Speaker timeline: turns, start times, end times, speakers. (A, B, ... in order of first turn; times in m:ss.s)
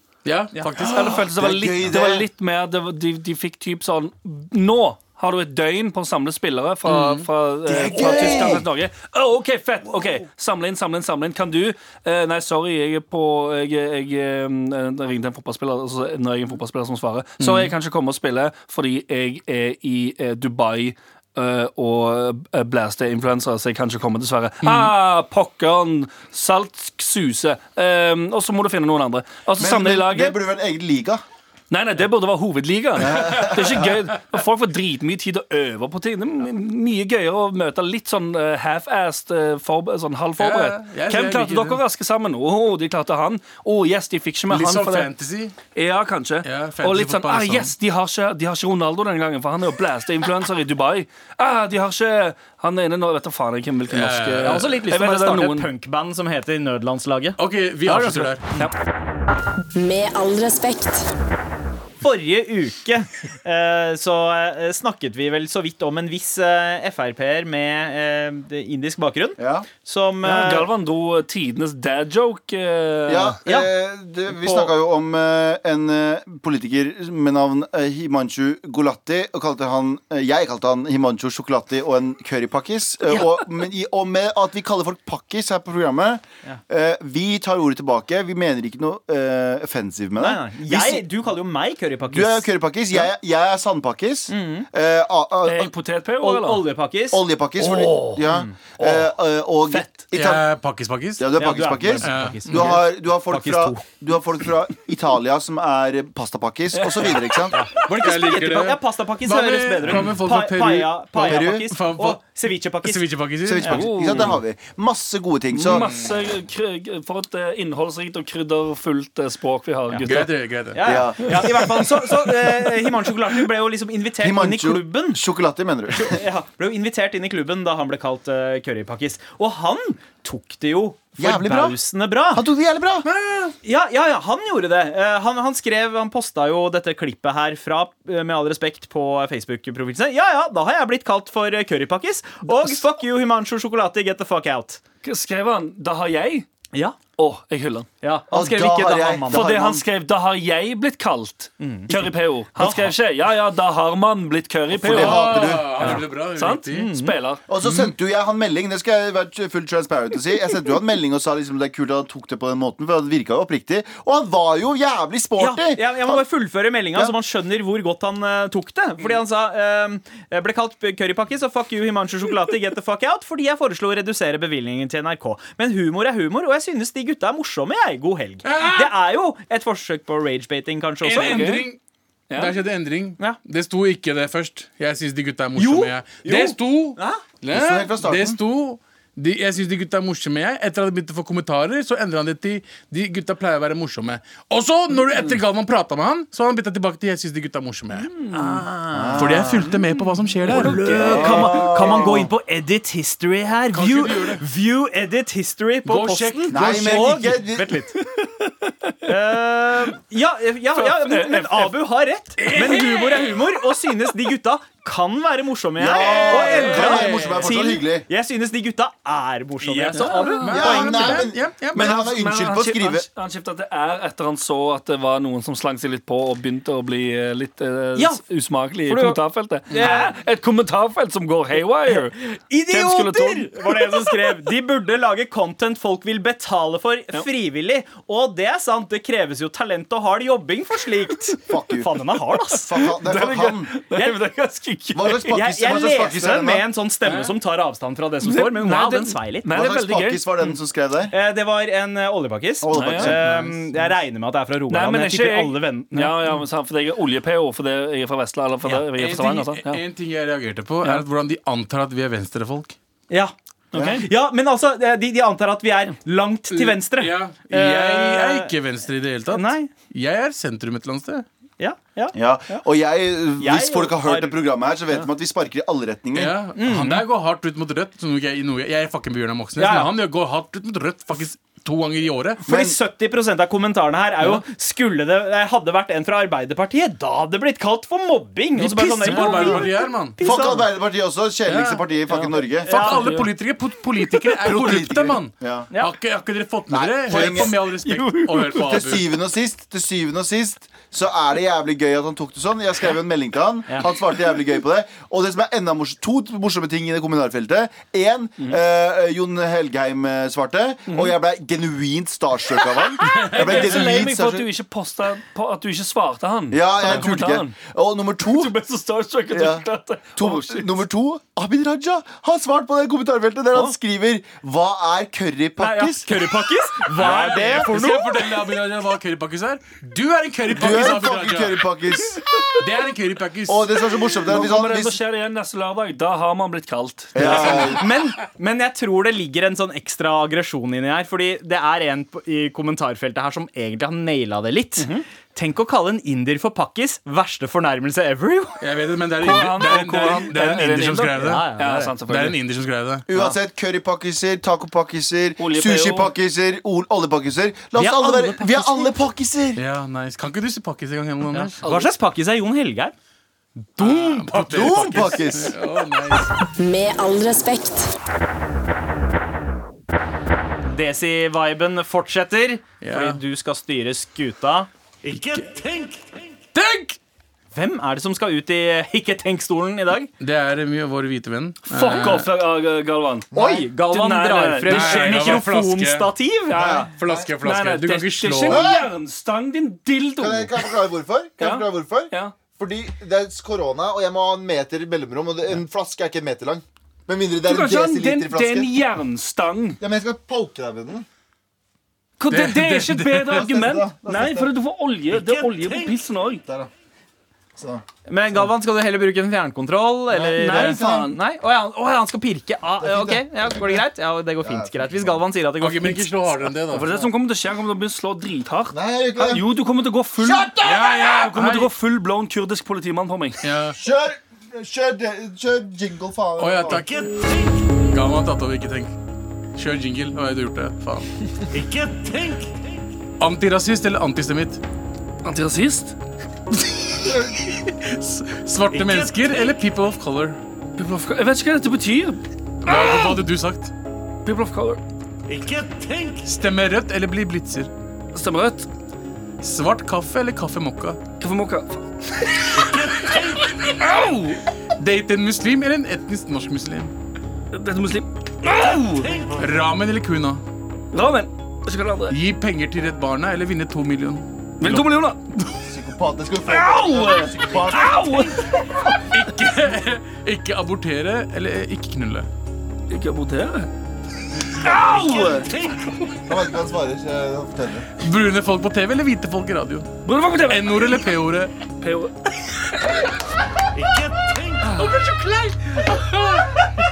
0:00.2-0:01.3 A
0:00.8-0:30.4 B
0:01.4-0:02.3 C
0:06.8-0:07.3 A
0:07.7-0:08.7 C
0:17.4-0:17.7 A
0:24.6-0:24.9 A
0:29.6-0:31.2 C
0:31.7-0:45.1 B
0:33.0-0:34.0 C
0:40.4-0:41.8 A
0:44.5-0:45.6 A
0:45.7-0:55.7 B
0:46.4-0:47.7 A
0:53.9-0:54.8 A
0:54.4-0:58.2 D
0:57.4-0:58.4 A
0:57.9-0:58.7 B
0:59.7-1:01.1 E
1:02.0-1:10.7 D
1:09.4-1:09.7 C
1:10.2-1:13.4 B
1:13.1-1:31.0 C
1:14.3-1:14.7 D
1:30.2-1:33.1 D
1:32.1-1:35.7 C
1:34.3-1:34.7 D
1:35.4-1:36.6 B
1:36.2-1:37.2 D
1:37.1-1:40.4 C
1:37.6-1:38.3 B
1:38.3-1:39.1 D
1:40.1-1:41.3 A
1:41.2-1:47.6 C
1:41.4-1:43.8 D
1:42.0-1:42.8 A
1:46.7-1:47.5 B
1:47.5-1:53.0 D
1:47.8-1:52.2 A
1:51.2-1:51.7 C
1:52.8-1:53.7 A
1:53.4-1:55.9 C
1:53.7-1:54.4 B
1:55.5-2:00.3 B
1:55.8-1:56.1 A
2:00.0-2:00.8 A
2:00.7-2:05.2 D
2:00.8-2:01.8 C
2:01.2-2:02.0 B
2:04.2-2:06.2 C
2:05.9-2:12.4 D
2:11.2-2:11.8 C
2:12.3-2:13.1 C
2:13.1-2:13.5 A
2:13.6-2:24.8 D
2:25.0-2:26.5 B
2:27.2-2:27.9 B
2:28.0-2:29.5 D
2:28.3-2:29.9 C
2:29.3-2:37.4 B
2:31.6-2:31.9 D
2:31.9-2:32.9 C
2:34.7-2:35.9 C
2:34.9-2:36.9 A
2:36.7-2:37.1 D
2:37.5-2:46.2 C
2:37.6-2:37.9 A
2:45.4-3:01.4 D
2:58.4-2:58.9 A
3:01.0-3:01.8 A
3:01.2-3:01.7 B
3:02.3-3:02.6 B
3:02.3-3:18.1 A
3:05.6-3:07.2 D
3:07.5-3:08.4 C
3:18.1-3:18.7 B
3:18.3-3:19.8 D
3:18.9-3:19.6 C
3:19.2-3:20.9 A
3:20.5-3:22.2 B
3:20.5-3:28.0 D
3:21.0-3:22.3 C
3:23.7-3:24.4 A
3:25.9-3:27.1 A
3:26.5-3:27.7 C
3:28.0-3:29.0 B
3:29.0-3:41.2 D
3:30.8-3:31.8 B
3:32.4-3:33.5 B
3:35.8-3:38.1 C
3:36.3-3:36.8 B
3:36.7-3:37.5 A
3:39.6-3:40.7 B
3:40.4-3:42.0 A
3:40.5-3:43.1 C
3:41.8-3:52.2 B
3:48.0-3:48.2 D
3:48.9-3:50.1 D
3:51.9-4:02.7 D
3:52.7-3:54.4 B
4:01.5-4:02.0 C
4:02.5-4:03.7 C
4:02.7-4:05.4 B
4:03.9-4:09.5 D
4:04.9-4:06.6 C
4:07.0-4:07.4 B
4:08.2-4:10.2 B
4:09.5-4:11.1 C
4:11.1-4:16.2 D
4:12.6-4:13.2 C
4:12.7-4:13.2 B
4:13.2-4:13.7 A
4:14.7-4:19.8 B
4:18.7-4:22.8 A
4:23.1-4:28.5 D
4:23.7-4:24.1 B
4:23.7-4:24.0 C
4:26.5-4:31.2 A
4:29.3-4:29.7 D
4:31.6-4:32.6 D
4:32.1-4:36.3 C
4:33.4-4:34.4 D
4:36.2-4:42.4 A
4:36.6-4:37.0 D
4:39.6-4:39.9 D
4:42.4-4:50.7 D
4:42.5-4:42.8 C
4:48.8-4:50.2 A
4:49.0-4:49.6 C
4:50.2-4:52.8 C
4:51.5-4:51.8 A
4:52.1-4:53.3 B
4:52.6-4:53.1 D
4:52.7-4:59.1 A
4:54.4-4:55.7 C
4:56.7-4:57.6 C
4:57.9-4:58.3 D
4:58.3-4:58.6 B
4:58.6-5:14.5 C
5:13.0-5:17.6 B
5:13.0-5:13.8 A
5:16.5-5:18.5 C
5:18.2-5:20.7 B
5:19.3-5:26.2 C
5:25.6-5:28.4 D
5:26.9-5:31.7 A
5:27.0-5:27.7 C
5:30.5-5:32.7 C
5:32.6-5:33.8 A
5:33.5-5:35.0 C
5:34.2-5:37.8 B
5:37.1-5:37.8 C
5:37.4-5:48.6 D
5:44.8-5:45.0 B
5:48.6-5:51.5 A
5:49.2-5:52.4 B
5:51.2-5:51.9 D
5:52.1-5:53.1 A
5:53.1-5:59.6 C
5:55.4-5:56.1 B
5:57.8-5:59.0 D
5:59.6-6:01.6 A
6:01.3-6:02.9 D
6:03.7-6:04.8 D
6:03.8-6:06.4 A
6:04.4-6:05.6 C
6:06.6-6:07.9 E
6:10.7-6:14.7 D
6:12.8-6:13.2 A
6:15.1-6:16.0 B
6:16.5-6:17.0 A
6:17.5-6:20.1 D
6:20.2-6:22.3 A
6:21.7-6:23.3 B
6:23.3-6:23.7 C
6:23.3-6:26.9 D
6:23.9-6:25.4 B
6:24.7-6:26.1 A
6:26.5-6:26.9 B
6:26.6-6:27.3 C
6:27.0-6:28.7 A
6:27.4-6:30.7 B
6:28.5-6:28.9 C
6:30.2-6:38.7 C
6:31.4-6:32.4 B
6:37.4-6:39.8 B
6:39.8-6:41.1 C
6:42.2-6:46.4 B
6:42.3-6:43.4 A
6:43.2-6:44.5 C
6:47.6-6:47.8 C
6:48.1-6:56.1 D
6:50.1-6:51.2 C
6:50.4-6:51.2 B
6:52.8-6:53.6 C
6:54.4-6:55.1 C
6:55.6-6:56.9 A
6:56.7-7:03.4 B
6:58.7-6:59.6 C
7:00.2-7:01.1 C
7:00.6-7:01.7 A
7:03.4-7:03.8 A
7:03.8-7:06.9 C
7:06.4-7:08.9 A
7:09.6-7:11.3 A
7:11.7-7:12.4 B
7:13.2-7:14.6 A
7:15.2-7:16.0 B
7:17.4-7:20.4 A
7:18.7-7:19.1 B
7:20.8-7:23.2 B
7:22.6-7:23.7 A
7:24.2-7:24.8 B
7:25.3-7:26.2 B
7:26.2-7:27.7 A
7:28.1-7:28.7 B
7:29.4-7:31.0 A
7:31.2-7:34.4 B
7:32.6-7:33.4 A
7:34.8-7:36.9 A
7:37.5-7:39.3 B
7:39.4-7:40.4 A
7:40.9-7:42.2 B
7:42.1-7:44.9 A
7:44.6-7:45.6 B
7:45.6-7:48.9 C
7:46.5-7:49.0 B
7:49.1-7:52.3 A
7:52.9-7:53.7 B
7:54.4-7:56.1 B
7:56.3-7:57.9 C
7:58.0-8:01.5 A
8:00.0-8:01.0 B
8:01.8-8:02.1 B
8:04.6-8:05.0 B
8:04.8-8:05.2 A
8:05.0-8:06.0 D
8:05.7-8:06.5 A